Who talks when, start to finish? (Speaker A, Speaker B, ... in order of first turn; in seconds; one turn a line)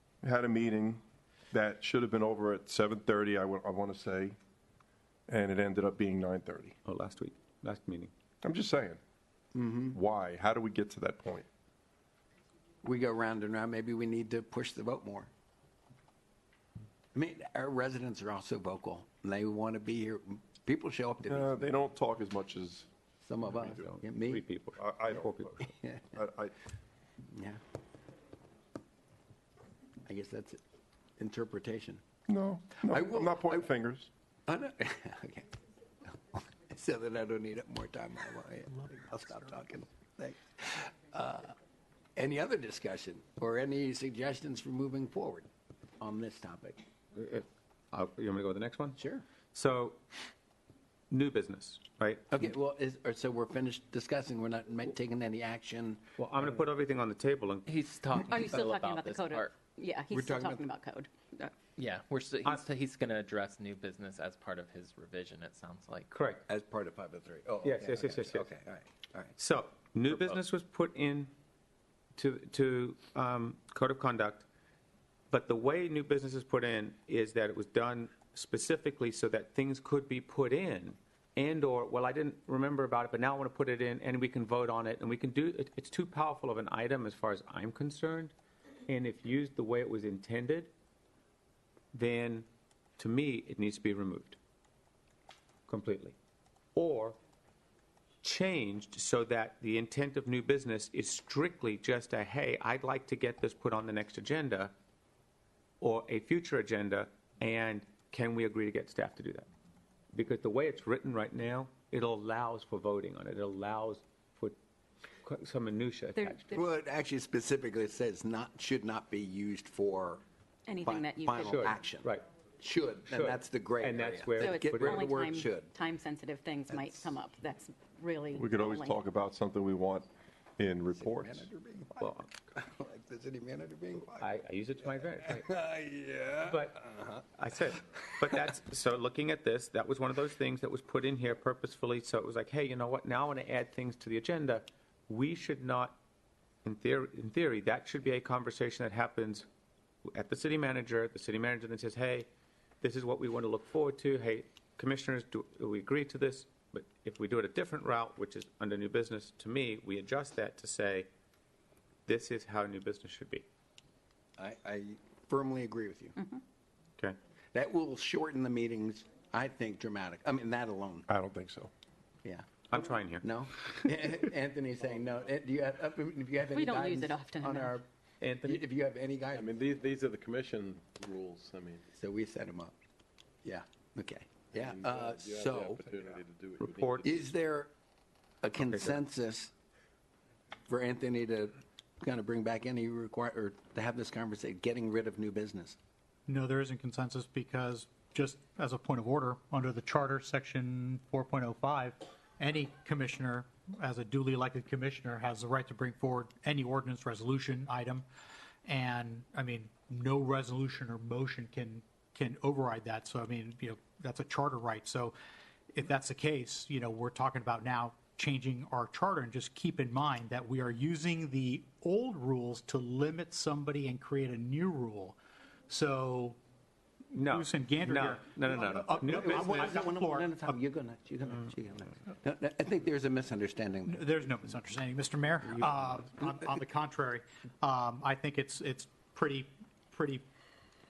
Speaker A: 0.2-4.4
Speaker A: 5.3-6.7
Speaker B: 6.8-8.1
Speaker A: 8.4-9.0
Speaker C: 9.5-10.0
Speaker A: 9.9-11.5
Speaker C: 12.8-15.3
Speaker C: 17.1-21.7
Speaker A: 21.3-22.9
Speaker C: 23.2-24.4
Speaker B: 23.5-25.7
Speaker A: 24.8-25.6
Speaker C: 25.7-26.2
Speaker A: 26.1-26.5
Speaker C: 27.3-27.6
Speaker C: 30.0-30.6
Speaker C: 31.2-32.0
Speaker A: 32.3-34.1
Speaker C: 32.8-33.7
Speaker C: 34.5-35.5
Speaker C: 36.3-41.5
Speaker C: 42.1-45.5
Speaker C: 46.0-46.8
Speaker B: 47.1-49.0
Speaker C: 49.0-49.2
Speaker B: 49.5-50.0
Speaker B: 51.1-52.2
Speaker C: 52.3-56.0
Speaker B: 56.2-57.7
Speaker D: 57.7-59.5
Speaker E: 58.2-61.6
Speaker C: 60.1-60.6
Speaker D: 61.8-66.1
Speaker B: 66.1-66.4
Speaker C: 66.5-69.3
Speaker B: 67.6-68.5
Speaker B: 69.4-71.3
Speaker B: 72.2-74.4
Speaker B: 75.3-88.3
Speaker B: 88.9-90.7
Speaker B: 91.9-92.5
Speaker B: 93.0-94.4
Speaker B: 95.7-96.1
Speaker B: 96.8-97.2
Speaker B: 98.2-104.7
Speaker B: 105.8-109.5
Speaker B: 110.1-114.6
Speaker B: 115.2-116.5
Speaker E: 116.2-116.6
Speaker C: 116.5-120.2
Speaker E: 120.7-121.7
Speaker C: 120.8-122.1
Speaker B: 121.4-122.2
Speaker C: 122.6-125.7
Speaker B: 123.1-125.0
Speaker E: 124.4-129.0
Speaker C: 126.7-127.1
Speaker A: 128.3-131.5
Speaker C: 130.9-134.3
Speaker B: 132.0-132.3
Speaker B: 134.2-135.5
Speaker C: 135.0-137.2
Speaker B: 136.4-136.8
Speaker B: 137.4-146.0
Speaker B: 146.6-149.5
Speaker B: 150.1-152.3
Speaker B: 152.8-161.1
Speaker B: 162.1-163.4
Speaker C: 164.4-166.2
Speaker C: 167.5-171.1
Speaker A: 171.1-171.7
Speaker B: 172.7-173.3
Speaker C: 173.2-177.8
Speaker E: 176.5-177.8
Speaker B: 178.2-178.6
Speaker C: 178.4-179.6
Speaker F: 179.3-181.8
Speaker C: 181.9-182.7
Speaker C: 183.4-186.2
Speaker F: 184.6-187.3
Speaker B: 186.6-187.2
Speaker C: 187.0-187.7
Speaker C: 188.4-189.5
Speaker B: 188.6-189.0
Speaker C: 190.7-195.8
Speaker G: 196.3-208.0
Speaker G: 208.7-215.1
Speaker G: 215.7-225.2
Speaker G: 225.7-226.4
Speaker B: 227.1-229.7
Speaker G: 227.2-230.6
Speaker C: 228.6-234.1
Speaker G: 233.9-240.2